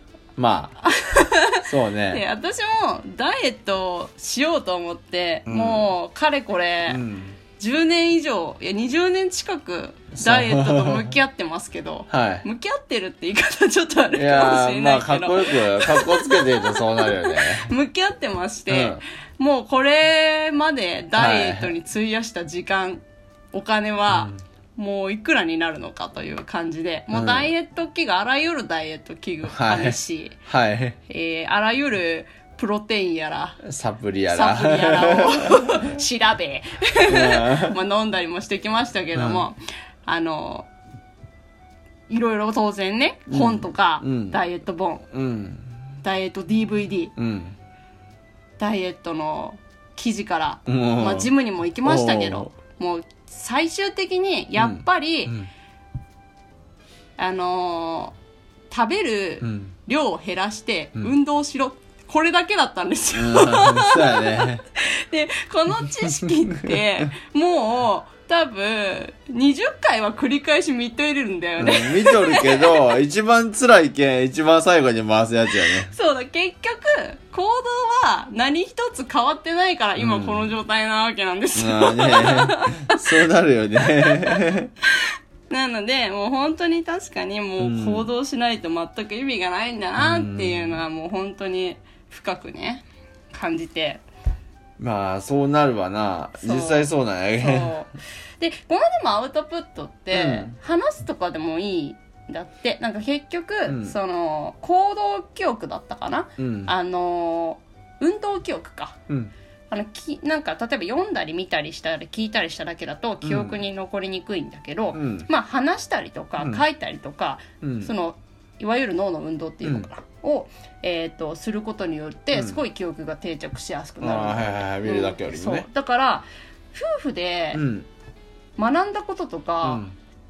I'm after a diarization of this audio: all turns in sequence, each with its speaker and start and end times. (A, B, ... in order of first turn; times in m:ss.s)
0:00.4-0:00.8 A
0:00.8-0:07.0 B
0:01.6-0:02.2 A
0:05.5-0:05.9 A
0:06.9-0:07.4 A
0:07.6-0:30.4 B
0:10.2-0:11.1 A
0:12.1-0:12.4 A
0:14.2-0:17.7 A
0:18.7-0:19.0 A
0:21.2-0:21.7 A
0:24.1-0:24.4 A
0:27.1-0:27.5 A
0:29.5-0:31.0 A
0:31.1-0:33.6 B
0:33.6-0:35.9 A
0:34.3-0:40.7 B
0:37.1-0:37.8 A
0:39.2-0:39.5 A
0:42.1-0:45.1 B
0:43.3-0:44.4 A
0:45.1-0:45.7 A
0:46.0-0:47.1 B
0:47.2-0:47.6 A
0:48.6-0:55.4 B
0:50.7-0:51.3 A
0:51.8-0:52.5 A
0:54.6-0:55.5 A
0:57.2-0:58.2 B
0:58.7-1:12.8 B
0:59.4-0:59.8 A
1:03.1-1:04.6 A
1:06.0-1:06.8 A
1:11.6-1:15.9 A
1:15.6-1:23.1 B
1:20.0-1:20.5 A
1:21.6-1:24.7 A
1:23.8-1:24.4 B
1:25.5-1:34.0 B
1:27.6-1:28.1 A
1:30.0-1:30.8 A
1:34.8-1:37.8 A
1:36.4-1:49.0 B
1:40.1-1:40.6 A
1:43.7-1:44.0 A
1:46.4-1:46.7 A
1:49.7-2:07.6 B
1:53.2-1:53.6 A
1:54.9-1:55.3 A
1:56.4-1:56.6 A
1:57.6-1:57.9 A
1:59.6-1:59.9 A
2:02.3-2:02.6 A
2:04.0-2:05.7 A
2:07.5-2:07.9 A
2:08.6-2:09.8 B
2:09.6-2:10.0 A